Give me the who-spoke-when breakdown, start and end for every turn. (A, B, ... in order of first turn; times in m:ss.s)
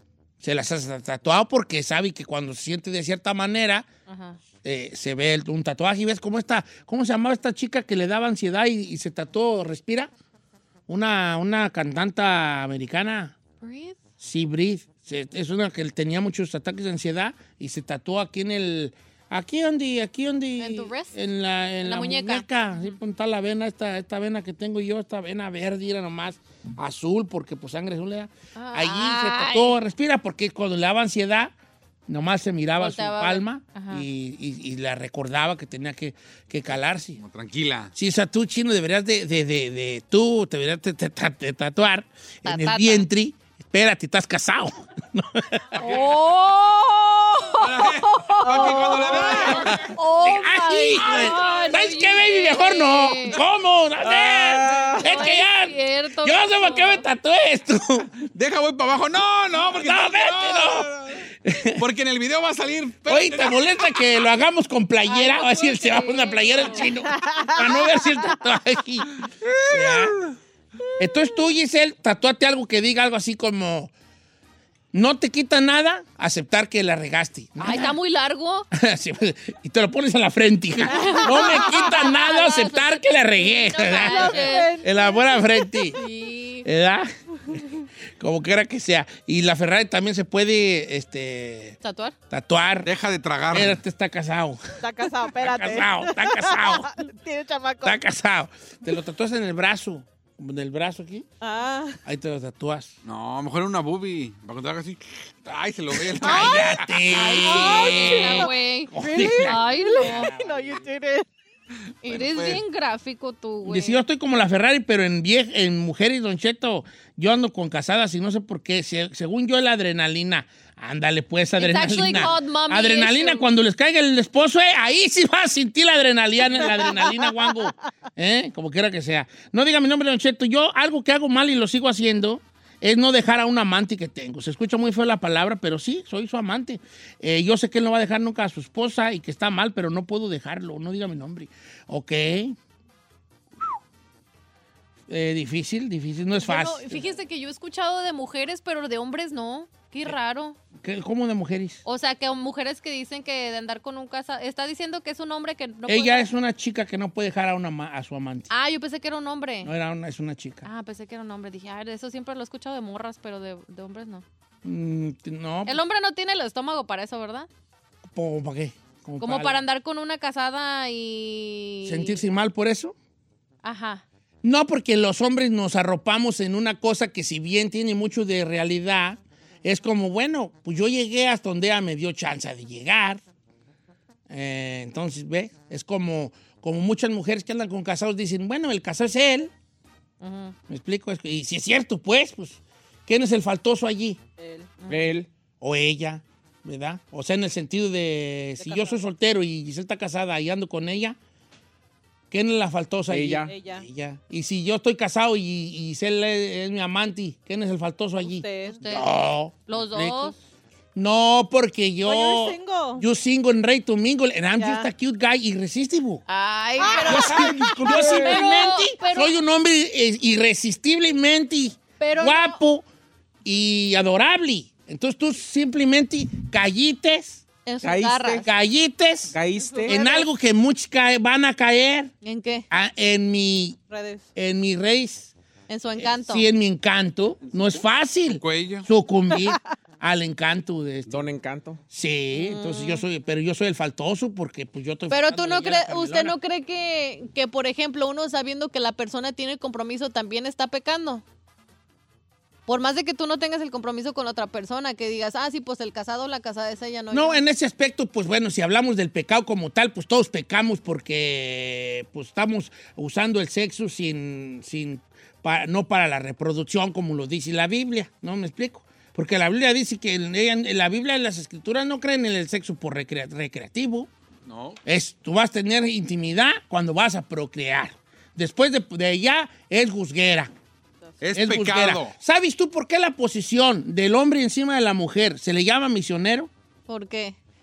0:00.4-0:03.9 A
0:04.1-0:04.4 B
0:04.6-0:10.1 A
0:10.9-0:13.4 A
0:13.6-0:14.0 B
0:14.2-0:31.5 A
0:20.6-0:21.2 B
0:21.8-0:23.0 B
0:28.6-0:29.8 B
0:32.1-0:37.2 A
0:32.8-0:34.0 B
0:37.2-0:37.9 C
0:38.0-0:45.6 A
0:42.4-0:43.1 B
0:45.8-0:46.0 C
0:45.8-0:53.4 B
0:47.6-0:49.9 C
0:48.5-0:49.7 D
0:49.7-0:58.1 A
0:51.1-0:51.3 C
0:54.1-0:55.0 C
0:54.6-0:55.0 E
0:55.0-0:57.0 B
0:58.2-1:01.3 C
0:59.7-1:00.9 A
1:01.5-1:01.8 A
1:01.8-1:04.0 C
1:03.1-1:09.1 A
1:05.0-1:06.9 B
1:06.9-1:08.1 D
1:09.5-1:10.2 C
1:09.7-1:10.2 A
1:11.0-1:13.9 A
1:14.9-1:17.9 A
1:17.6-1:18.7 B
1:18.7-1:26.0 A
1:20.8-1:24.8 B
1:20.9-1:22.0 D
1:23.9-1:25.9 D
1:25.9-1:26.7 B
1:26.6-1:27.1 A
1:28.2-1:31.8 A
1:31.8-1:32.2 B
1:32.3-1:32.9 A
1:32.8-1:33.8 C
1:33.5-1:34.6 A
1:34.8-1:38.0 D
1:35.4-1:36.9 A
1:37.8-1:41.3 A
1:41.4-1:42.0 D
1:42.0-1:42.9 A
1:43.0-1:47.1 C
1:46.1-1:50.3 A
1:46.2-1:46.8 D
1:47.1-1:50.3 B
1:47.5-1:51.3 D
1:50.2-1:50.7 C
1:52.0-1:54.0 B
1:52.1-1:52.6 C
1:53.6-2:22.6 A
2:01.6-2:03.5 B
2:06.5-2:07.7 D
2:25.1-2:27.1 A
2:26.4-2:30.6 B
2:30.8-2:31.8 A
2:31.8-2:36.3 B
2:35.9-2:38.5 A
2:38.5-2:39.7 B
2:39.6-2:40.7 A
2:40.6-2:44.2 B
2:44.6-2:45.8 A
2:45.7-2:47.5 B
2:48.1-2:49.6 A
2:49.2-2:52.2 B
2:51.8-2:53.0 A
2:53.6-2:54.0 B
2:54.4-3:03.2 A
3:04.3-3:09.5 A
3:10.2-3:10.5 B
3:10.7-3:14.2 A
3:14.4-3:14.9 D
3:14.9-3:15.3 E
3:15.6-3:21.2 A
3:18.6-3:19.0 D
3:22.3-3:30.4 A
3:23.1-3:23.5 E
3:23.5-3:23.8 D
3:28.2-3:28.9 D
3:28.8-3:30.4 B
3:31.0-3:36.2 A
3:32.0-3:33.0 D
3:34.6-3:34.9 D
3:36.3-3:39.3 B
3:36.8-3:37.8 D
3:37.0-3:38.5 E
3:37.0-3:42.8 A
3:42.0-3:42.6 B
3:43.4-3:47.4 A
3:47.7-3:48.5 B
3:47.8-3:48.2 E
3:48.2-3:52.1 A
3:49.3-3:50.0 E
3:49.6-3:50.3 D
3:52.2-3:52.7 B
3:52.7-3:53.8 A
3:53.9-3:54.3 D
3:54.4-3:55.3 A
3:55.7-3:56.5 B
3:56.0-4:01.1 A
3:58.3-3:58.9 C
4:01.1-4:01.8 E
4:01.9-4:06.4 A
4:02.3-4:03.0 B
4:05.1-4:11.2 B
4:12.7-4:17.4 B
4:17.1-4:34.1 A
4:34.5-4:34.8 C
4:34.8-4:40.5 A
4:41.2-4:42.1 C
4:41.3-4:46.5 A
4:46.9-4:47.4 B